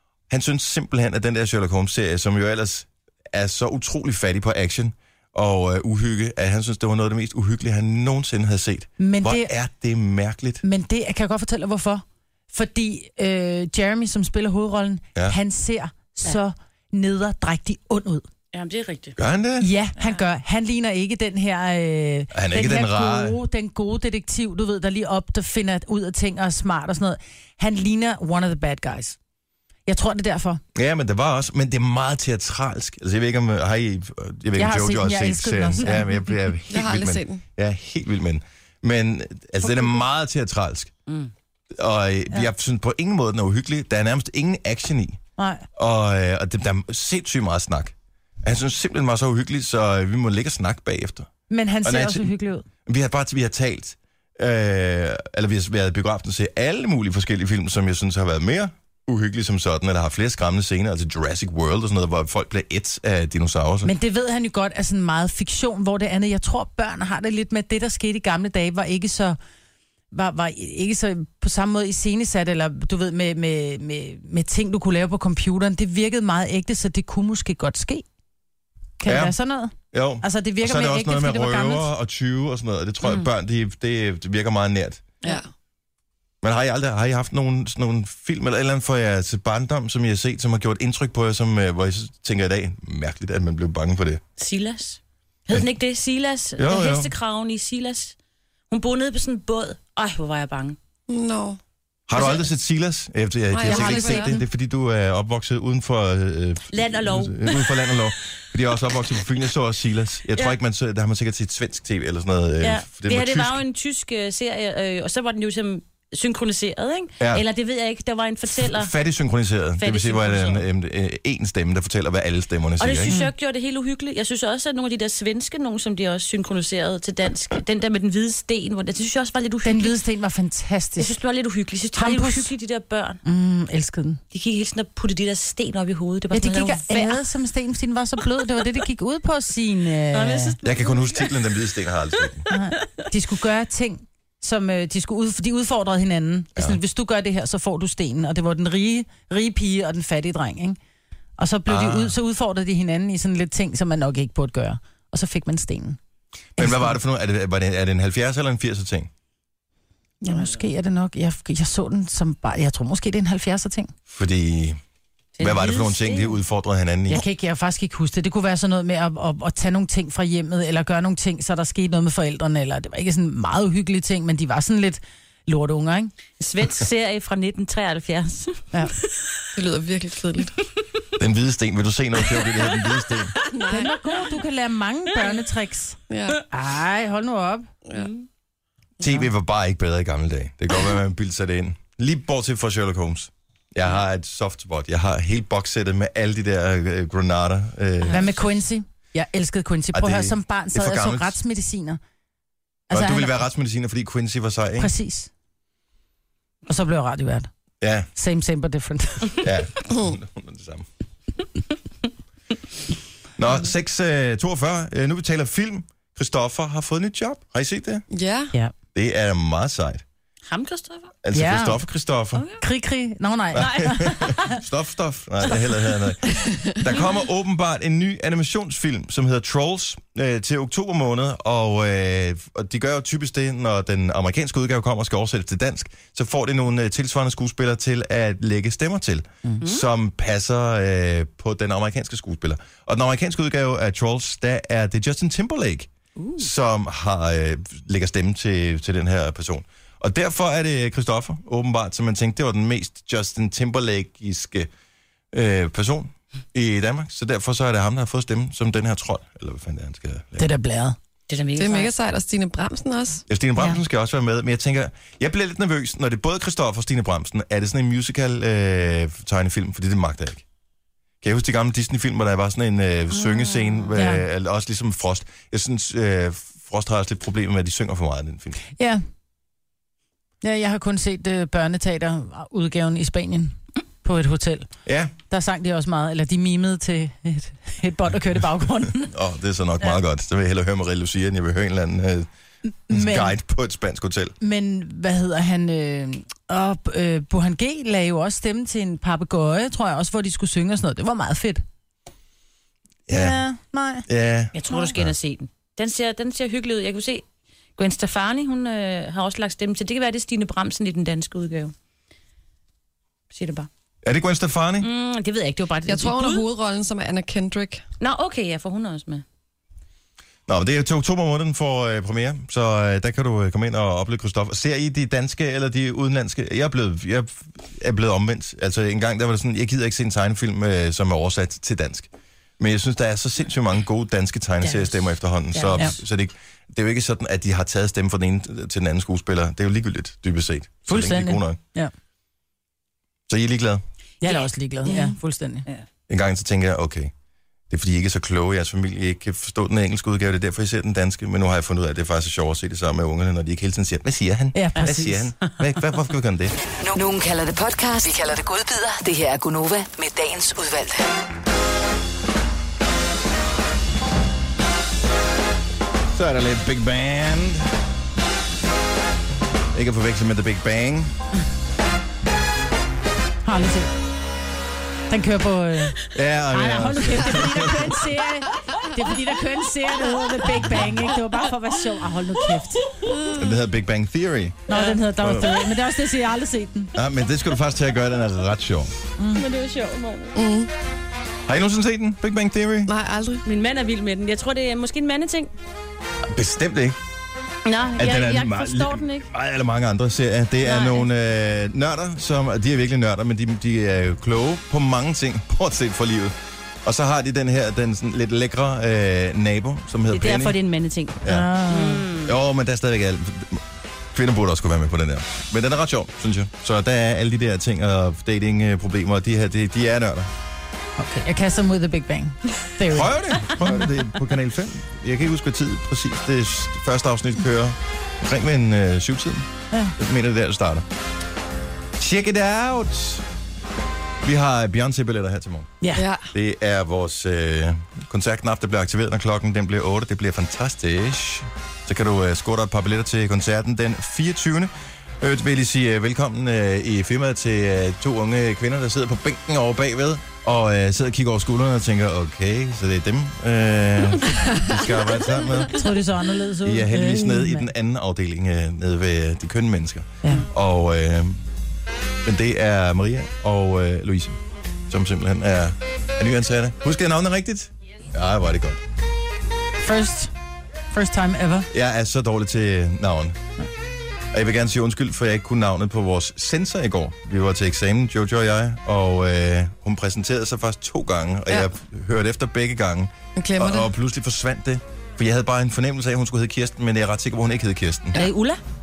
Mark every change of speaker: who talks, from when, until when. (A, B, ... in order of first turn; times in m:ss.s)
0:00.3-0:10.6 A
0:09.0-0:09.5 B
0:10.6-0:18.2 B
0:18.5-0:19.2 C
0:19.2-0:19.7 A
0:19.6-0:29.2 B
0:22.3-0:23.4 A
0:29.9-0:30.6 B
0:30.7-0:40.9 A
0:34.6-0:36.3 B
0:36.7-0:37.4 D
0:39.6-0:40.0 B
0:41.7-0:45.2 A
0:45.4-0:45.6 B
0:45.7-0:51.3 A
0:51.5-0:52.6 B
0:51.8-0:52.3 A
0:52.8-1:03.9 A
1:03.8-1:09.4 B
1:10.1-1:18.0 B
1:19.0-1:21.9 B
1:19.0-1:19.4 A
1:19.9-1:25.0 A
1:26.4-1:34.2 A
1:34.4-1:38.1 C
1:36.6-1:37.1 A
1:38.7-1:40.8 C
1:41.1-1:41.6 D
1:42.1-1:53.6 A
1:42.1-1:42.4 D
1:43.5-1:44.4 D
1:43.7-1:44.1 B
1:46.7-1:48.1 C
1:52.6-1:58.9 C
1:57.2-1:57.4 A
1:58.6-2:03.1 A
1:59.8-2:00.6 C
2:02.8-2:09.9 C
2:09.6-2:11.1 B
2:11.0-2:13.2 C
2:12.0-2:12.5 B
2:13.2-2:14.2 B
2:14.3-2:17.2 C
2:16.3-2:20.5 B
2:20.1-2:22.8 C
2:20.6-2:22.4 A
2:22.5-2:30.8 B
2:31.4-2:36.0 B
2:31.6-2:32.1 A
2:36.6-2:39.1 A
2:36.6-2:36.9 B
2:40.2-2:43.9 B
2:44.1-2:44.8 A
2:45.4-2:46.4 C
2:45.4-2:47.2 A
2:47.1-2:56.1 B
2:56.4-2:58.6 C
2:59.5-3:00.6 D
3:01.2-3:03.4 A
3:03.5-3:03.9 D
3:03.7-3:06.0 B
3:06.1-3:06.4 D
3:06.5-3:07.7 B
3:07.8-3:08.1 D
3:07.9-3:08.2 C
3:09.0-3:18.4 A
3:18.1-3:22.0 B
3:19.9-3:21.4 A
3:22.9-3:23.4 B
3:22.9-3:24.9 A
3:24.8-3:25.3 B
3:26.7-3:27.5 B
3:27.8-3:28.1 A
3:28.1-3:29.5 B
3:29.4-3:30.8 A
3:33.4-3:38.0 A
3:38.1-3:38.5 D
3:38.9-3:40.0 A
3:40.5-3:41.1 C
3:41.2-3:42.4 A
3:41.3-3:41.8 B
3:42.3-3:42.6 C
3:42.6-3:44.4 B
3:43.5-4:14.7 A
3:43.5-3:44.4 C
4:15.3-4:20.5 A
4:20.4-4:21.0 B
4:21.3-4:21.9 C
4:21.6-4:23.2 D
4:23.3-4:30.4 A
4:31.2-4:38.6 A
4:33.9-4:34.2 B
4:38.8-4:39.0 B
4:40.4-4:44.7 B
4:44.8-4:45.1 A
4:45.3-4:49.1 B
4:49.0-4:52.3 A
4:52.9-4:53.3 B
4:52.9-4:54.4 A
4:54.4-5:01.6 B
5:03.1-5:03.4 A
5:03.1-5:04.1 B
5:04.1-5:05.1 A
5:04.5-5:07.2 C
5:07.8-5:11.7 C
5:13.3-5:13.7 C
5:14.0-5:14.9 A
5:14.8-5:16.4 C
5:15.9-5:17.8 D
5:18.0-5:19.2 C
5:20.5-5:41.6 A
5:35.5-5:35.8 C
5:40.8-5:41.9 B
5:43.3-5:43.8 A
5:44.2-5:45.6 B
5:44.8-5:45.1 D
5:46.1-5:47.1 A
5:47.7-5:56.6 A
5:54.5-5:55.3 B
5:56.8-6:01.1 E
6:06.1-6:07.7 A
6:09.7-6:11.1 A
6:13.4-6:13.9 B
6:15.1-6:22.8 B
6:16.1-6:18.1 A
6:22.9-6:23.1 C
6:23.0-6:23.5 D
6:23.3-6:25.6 A
6:24.7-6:26.9 B
6:26.9-6:28.9 A
6:29.2-6:29.4 B
6:29.3-6:30.4 C
6:30.4-6:30.7 D
6:31.5-6:32.9 A
6:32.9-6:33.4 D
6:33.4-6:35.5 C
6:36.3-6:37.0 A
6:37.6-6:39.3 C
6:38.0-6:50.6 A
6:40.6-6:41.1 C
6:50.1-6:52.4 C
6:51.2-6:51.5 A
6:51.2-6:52.1 B
6:52.2-7:00.3 A
7:01.0-7:03.8 B
7:02.9-7:10.8 A
7:12.0-7:13.2 A
7:14.2-7:15.8 A
7:15.8-7:16.0 B
7:15.9-7:16.3 D
7:16.3-7:35.8 A
7:35.7-7:37.7 B
7:36.6-7:41.4 A
7:42.2-7:44.4 A
7:44.9-7:48.8 A
7:49.8-7:50.3 B
7:50.9-7:51.7 B
7:51.7-7:53.4 A
7:54.3-8:08.2 A
8:03.4-8:03.9 D
8:08.1-8:08.6 C